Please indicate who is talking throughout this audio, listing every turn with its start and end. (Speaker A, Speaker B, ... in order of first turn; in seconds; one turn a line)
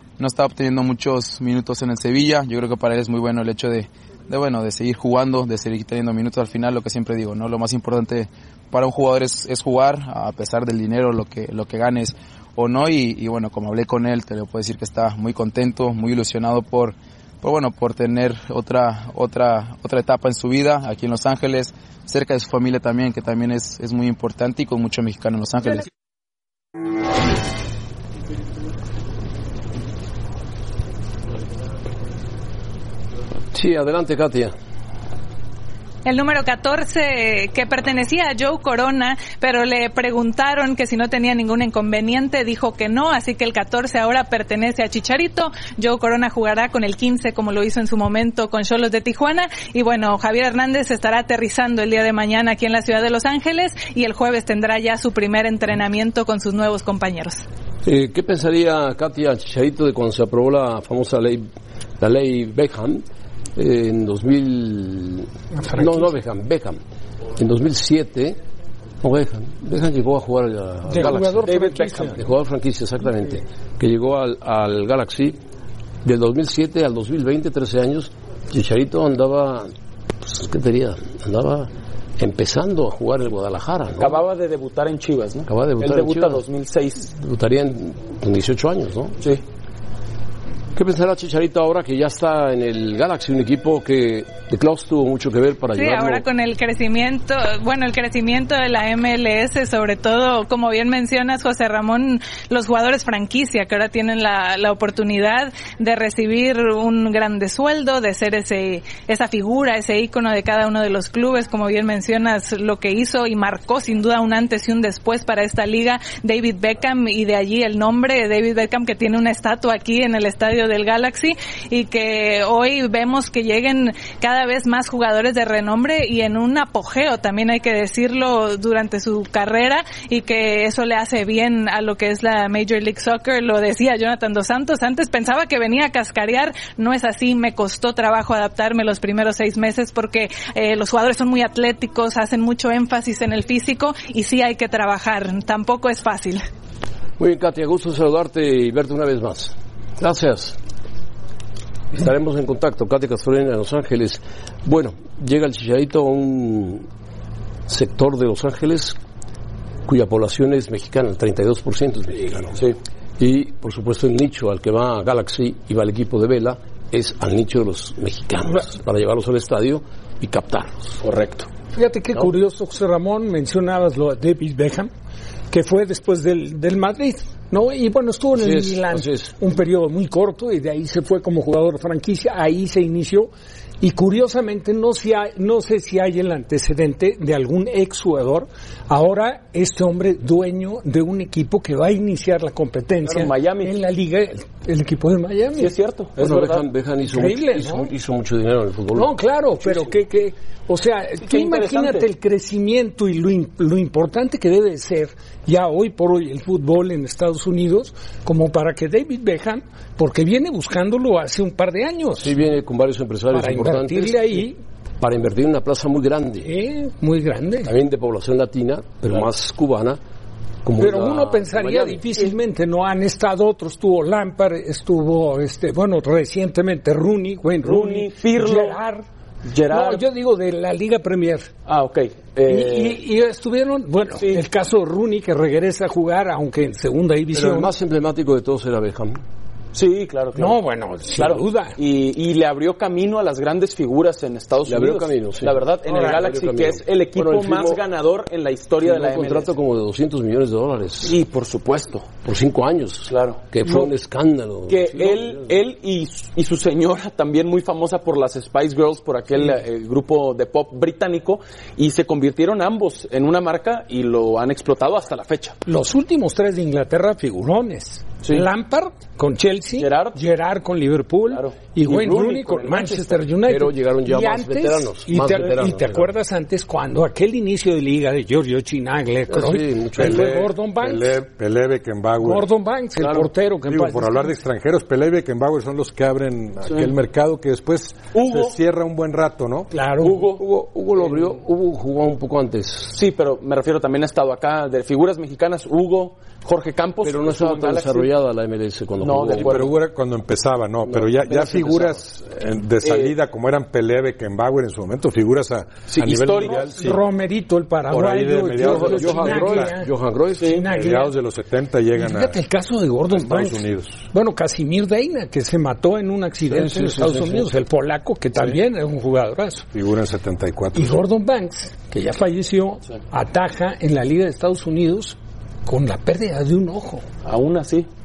Speaker A: 0.2-25.9
Speaker B: 33.5-34.5
Speaker C: 36.0-57.4
Speaker B: 57.8-61.5
Speaker B: 62.0-63.0
Speaker B: 63.5-66.8
Speaker D: 65.5-66.1
Speaker B: 67.4-68.4
Speaker B: 69.0-71.5
Speaker D: 70.9-72.2
Speaker E: 71.0-72.2
Speaker B: 72.1-75.4
Speaker B: 76.0-84.2
Speaker E: 84.0-87.1
Speaker B: 85.5-86.4
Speaker B: 87.1-89.2
Speaker B: 90.8-96.2
Speaker C: 95.7-146.4
Speaker B: 147.2-150.6
Speaker B: 151.9-156.8
Speaker B: 157.7-159.0
Speaker B: 159.9-162.6
Speaker B: 163.2-171.0
Speaker E: 171.0-171.5
Speaker D: 171.7-174.9
Speaker D: 175.5-195.7
Speaker B: 178.3-179.3
Speaker E: 193.0-193.8
Speaker E: 195.5-196.6
Speaker B: 196.2-199.1
Speaker D: 197.0-197.9
Speaker D: 198.9-212.4
Speaker E: 199.6-199.9
Speaker E: 201.2-202.1
Speaker B: 212.2-214.4
Speaker D: 213.3-214.6
Speaker B: 215.0-216.5
Speaker D: 216.4-217.7
Speaker B: 217.6-220.0
Speaker B: 220.6-222.0
Speaker D: 220.8-229.0
Speaker E: 227.6-228.8
Speaker E: 229.5-230.0
Speaker D: 229.7-231.5
Speaker E: 231.7-233.0
Speaker D: 232.5-237.7
Speaker E: 234.2-234.4
Speaker B: 237.3-239.2
Speaker E: 239.7-240.6
Speaker D: 240.3-241.7
Speaker E: 241.1-249.5
Speaker B: 244.6-247.8
Speaker D: 245.9-246.1
Speaker B: 248.8-251.2
Speaker E: 251.0-252.1
Speaker B: 252.2-255.5
Speaker E: 253.1-253.9
Speaker E: 254.7-265.6
Speaker D: 265.6-281.2
Speaker E: 269.7-270.2
Speaker E: 271.3-273.2
Speaker B: 273.5-276.1
Speaker B: 279.3-280.3
Speaker F: 280.0-282.5
Speaker D: 282.2-284.4
Speaker F: 283.6-289.7
Speaker E: 288.1-288.6
Speaker D: 289.7-290.2
Speaker E: 290.0-290.4
Speaker B: 290.4-293.0
Speaker E: 292.9-298.1
Speaker B: 297.0-299.7
Speaker E: 299.0-299.8
Speaker F: 299.4-307.0
Speaker B: 300.8-302.0
Speaker E: 302.8-303.1
Speaker E: 305.9-306.7
Speaker D: 306.7-309.9
Speaker F: 307.9-309.7
Speaker B: 308.6-310.6
Speaker E: 310.4-310.6
Speaker D: 310.4-311.2
Speaker F: 310.7-312.4
Speaker D: 311.9-319.6
Speaker F: 313.1-314.1
Speaker B: 316.7-317.4
Speaker F: 319.7-321.0
Speaker D: 320.7-327.0
Speaker E: 327.2-327.9